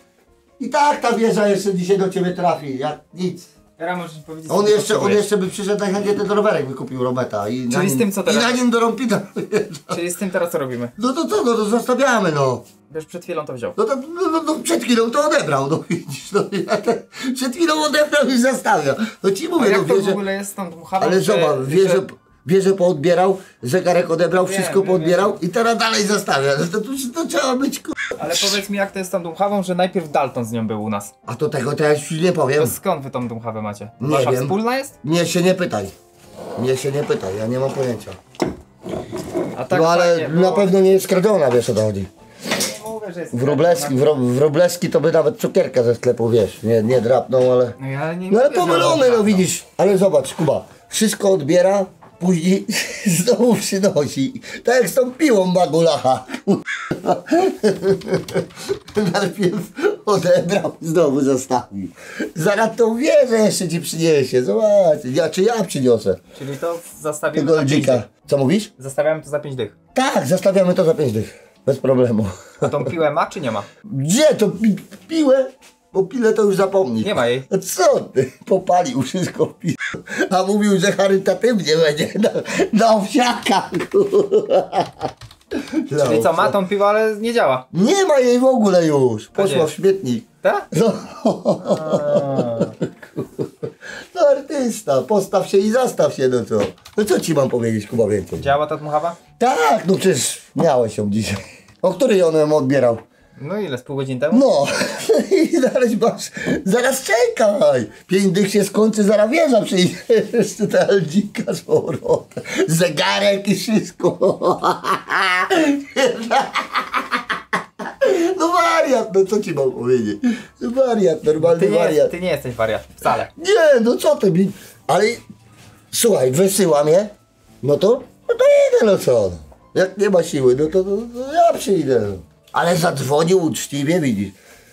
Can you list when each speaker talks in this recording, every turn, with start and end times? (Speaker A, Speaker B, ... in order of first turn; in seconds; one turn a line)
Speaker A: 0.6-3.5
Speaker B: 3.8-5.3
Speaker A: 4.5-10.0
Speaker B: 7.7-8.7
Speaker B: 9.9-10.9
Speaker A: 11.0-12.6
Speaker B: 12.9-13.8
Speaker A: 13.8-20.2
Speaker B: 19.6-22.0
Speaker A: 21.0-27.9
Speaker B: 24.3-25.4
Speaker B: 28.2-31.1
Speaker A: 31.3-32.7
Speaker B: 32.6-35.0
Speaker A: 34.0-35.9
Speaker A: 36.5-38.2
Speaker B: 39.5-40.7
Speaker A: 39.7-42.1
Speaker B: 42.5-44.2
Speaker A: 43.3-47.7
Speaker B: 47.8-49.5
Speaker A: 48.3-66.2
Speaker B: 66.3-68.0
Speaker A: 67.3-68.7
Speaker B: 68.8-69.7
Speaker A: 69.9-72.7
Speaker B: 72.6-73.7
Speaker A: 73.9-85.1
Speaker B: 77.0-77.5
Speaker A: 85.8-86.5
Speaker B: 85.9-87.6
Speaker A: 87.7-98.5
Speaker B: 89.3-89.7
Speaker B: 90.4-90.7
Speaker B: 91.7-92.7
Speaker B: 98.4-99.2
Speaker A: 99.4-103.0
Speaker B: 103.4-104.5
Speaker A: 104.3-122.1
Speaker B: 121.4-123.3
Speaker A: 123.3-125.2
Speaker A: 125.9-134.3